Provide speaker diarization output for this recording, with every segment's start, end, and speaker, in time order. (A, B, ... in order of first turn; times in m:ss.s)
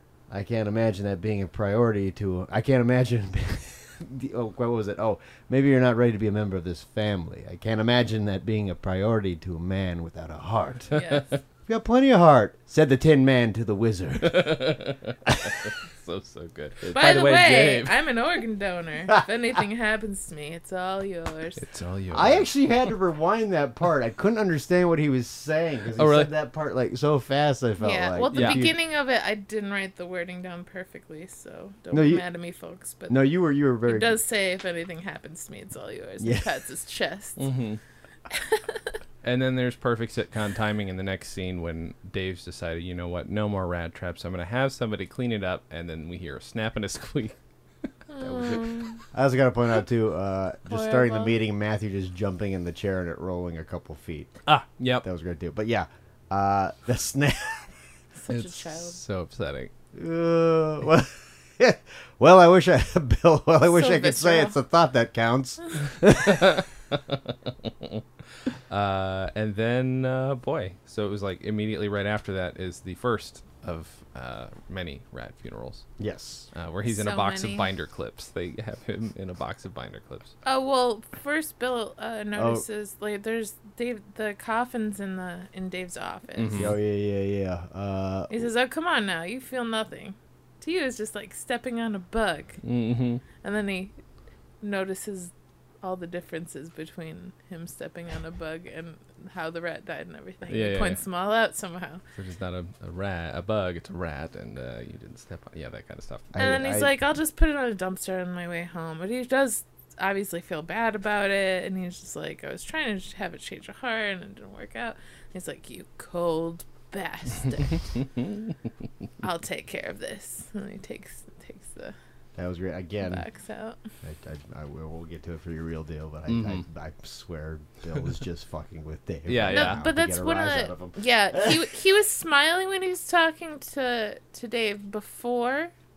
0:00.3-0:10.9 A
0:10.9-0:11.2 B
0:10.9-0:11.4 C
0:11.7-0:15.6 A
0:14.2-0:18.0 B
0:16.9-0:21.6 C
0:21.6-0:22.5 B
0:22.1-0:28.8 A
0:26.0-0:26.3 B
0:27.8-0:33.2 C
0:28.3-0:28.7 B
0:31.9-0:32.2 A
0:33.1-0:34.2 A
0:33.8-0:37.5 C
0:36.2-0:36.5 A
0:37.4-0:37.8 B
0:38.3-0:38.9 C
0:39.2-0:47.4 B
0:48.1-0:49.0 C
0:48.2-0:54.3 A
0:50.7-0:51.4 C
0:54.5-0:55.0 B
0:55.0-0:57.8 A
0:58.1-0:59.0 C
0:58.3-0:59.7 B
0:59.9-1:06.6 A
1:03.7-1:04.6 C
1:06.2-1:08.0 B
1:08.5-1:15.9 B
1:16.0-1:16.5 A
1:16.5-1:20.3 B
1:16.9-1:17.7 C
1:20.4-1:26.7 C
1:22.4-1:22.6 A
1:26.4-1:26.8 B
1:26.5-1:28.5 A
1:28.3-1:32.6 C
1:32.6-1:33.2 B
1:33.4-1:33.9 C
1:34.6-1:42.0 C
1:40.5-1:41.0 B
1:42.2-1:46.3 B
1:46.3-1:47.0 A
1:46.4-1:57.9 C
1:59.2-2:02.0 C
2:02.4-2:03.2 A
2:03.0-2:03.8 C
2:04.0-2:11.7 A
2:06.3-2:06.6 B
2:09.3-2:09.8 B
2:09.5-2:15.7 C